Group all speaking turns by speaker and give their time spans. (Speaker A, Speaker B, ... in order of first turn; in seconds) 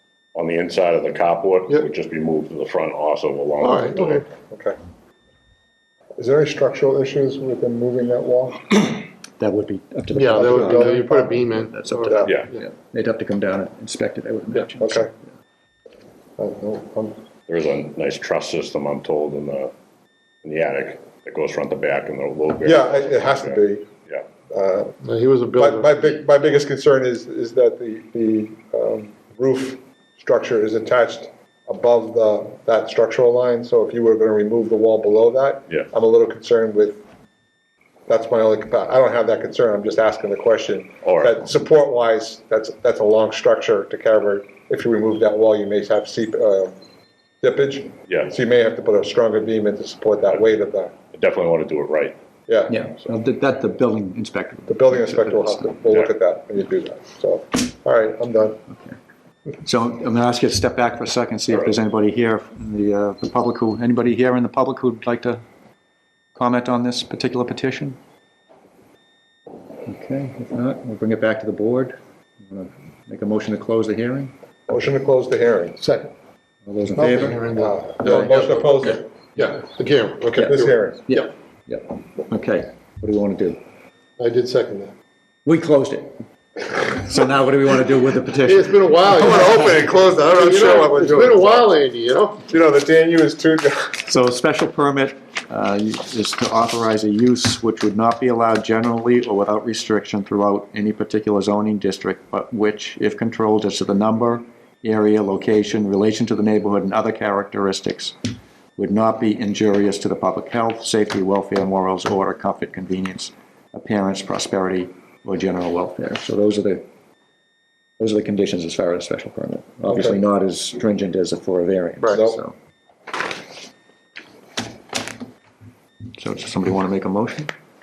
Speaker A: 0.3-4.2, 12.2-12.5, 17.5-19.7, 20.4-24.2, 41.0-41.4, 48.1-48.4, 51.1-52.2, 55.8-56.1, 61.5-61.8
Speaker B: 3.6-4.3, 10.1-12.6, 25.0-26.1, 75.8-76.1, 77.0-81.1, 84.2-84.9, 88.4-92.4
Speaker C: 4.4-4.8, 6.2-9.0, 10.3-11.4, 12.1-12.3, 14.8-15.1, 16.4-17.2, 22.6-23.9, 24.5-25.0, 25.6-37.0, 38.1-46.7, 47.4-50.9, 52.5-52.9, 54.7-58.6, 74.7-75.8, 77.3-79.3, 80.2-81.0, 89.1-91.7, 92.5-94.1, 119.9-120.2, 122.1-122.4
Speaker D: 9.4-15.1, 52.7-55.8, 59.6-65.4, 66.3-68.0, 69.8-74.3, 76.7-77.4, 81.1-83.6, 85.4-86.2, 86.7-89.3, 94.0-108.2, 108.8-116.8, 118.0-122.5, 126.2-127.5